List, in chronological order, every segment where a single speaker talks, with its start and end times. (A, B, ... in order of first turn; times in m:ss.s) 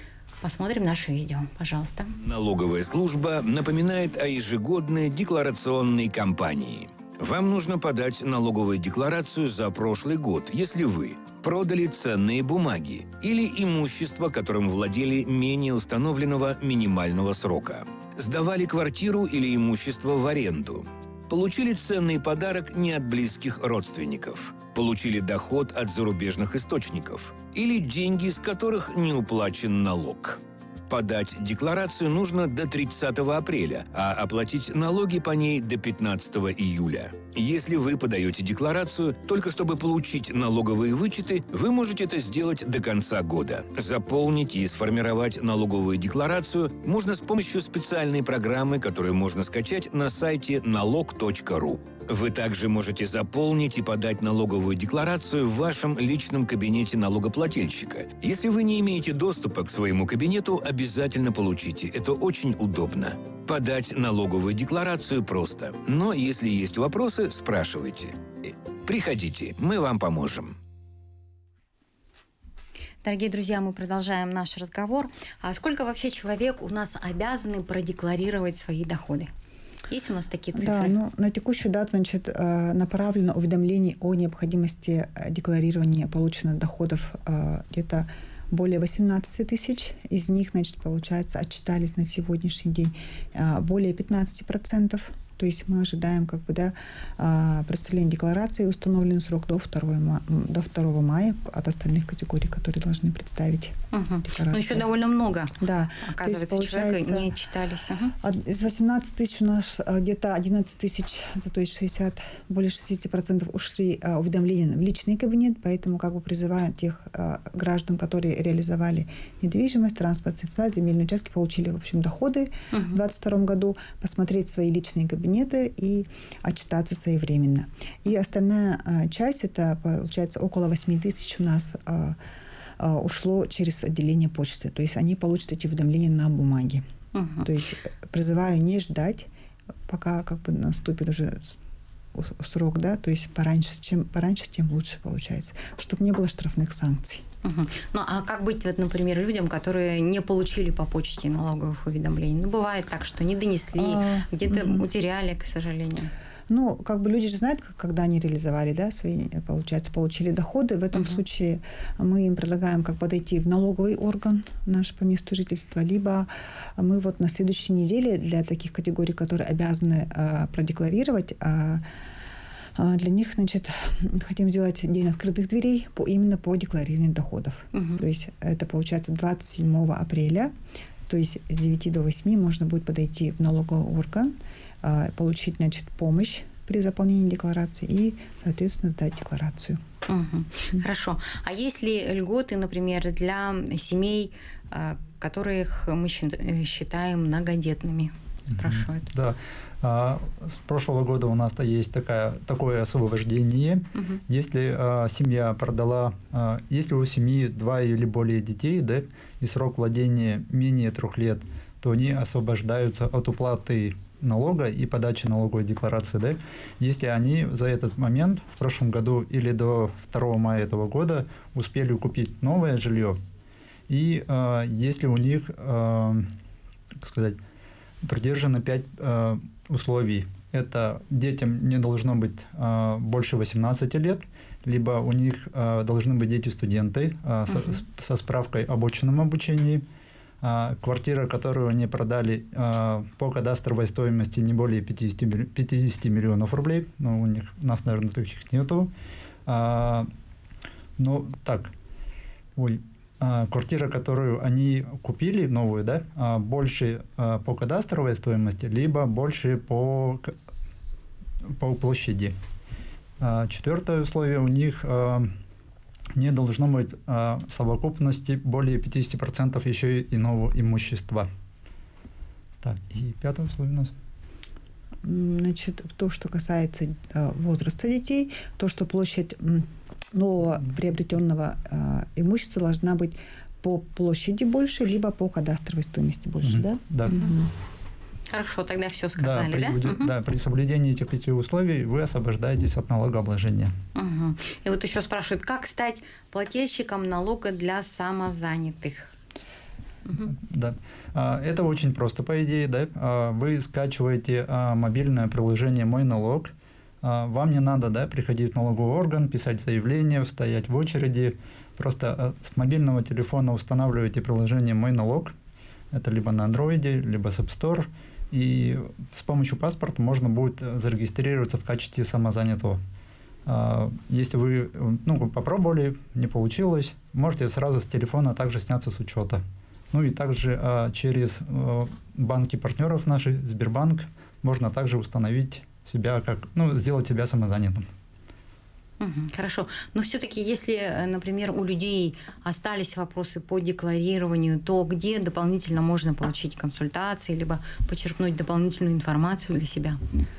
0:00.4-0:02.1 A
0:02.2-1:10.6 B
1:13.0-1:19.3 A
1:19.9-1:20.9 A
1:20.5-1:44.8 C
1:43.9-1:48.1 A
1:45.6-1:47.3 C
1:48.2-2:12.2 C
2:02.7-2:03.0 A
2:12.8-2:16.8 C
2:17.1-2:17.5 A
2:17.4-2:19.3 C
2:19.9-2:21.6 C
2:22.1-2:27.2 C
2:27.4-2:36.1 A
2:33.8-2:34.8 C
2:36.5-2:51.8 C
2:52.7-3:00.5 C
2:57.7-2:58.0 A
3:01.1-3:09.8 C
3:10.1-3:19.1 A
3:18.5-3:43.2 D
3:23.9-3:24.2 A
3:43.9-3:46.3 D
3:47.0-3:47.4 D
3:48.0-3:59.8 D
4:00.4-4:08.9 D
4:09.4-4:10.1 D
4:11.0-4:11.7 D
4:12.6-4:20.3 D
4:21.6-4:22.3 D
4:23.2-4:25.3 D
4:26.1-4:31.3 D
4:32.6-4:33.9 D
4:35.0-4:47.5 C
4:46.4-4:47.2 D
4:48.3-4:50.1 A
4:49.2-4:53.7 D
4:53.9-4:59.1 A
5:00.0-5:00.3 A
5:00.2-5:15.3 D
5:15.9-5:22.8 D
5:23.4-5:37.8 D
5:39.0-5:50.0 A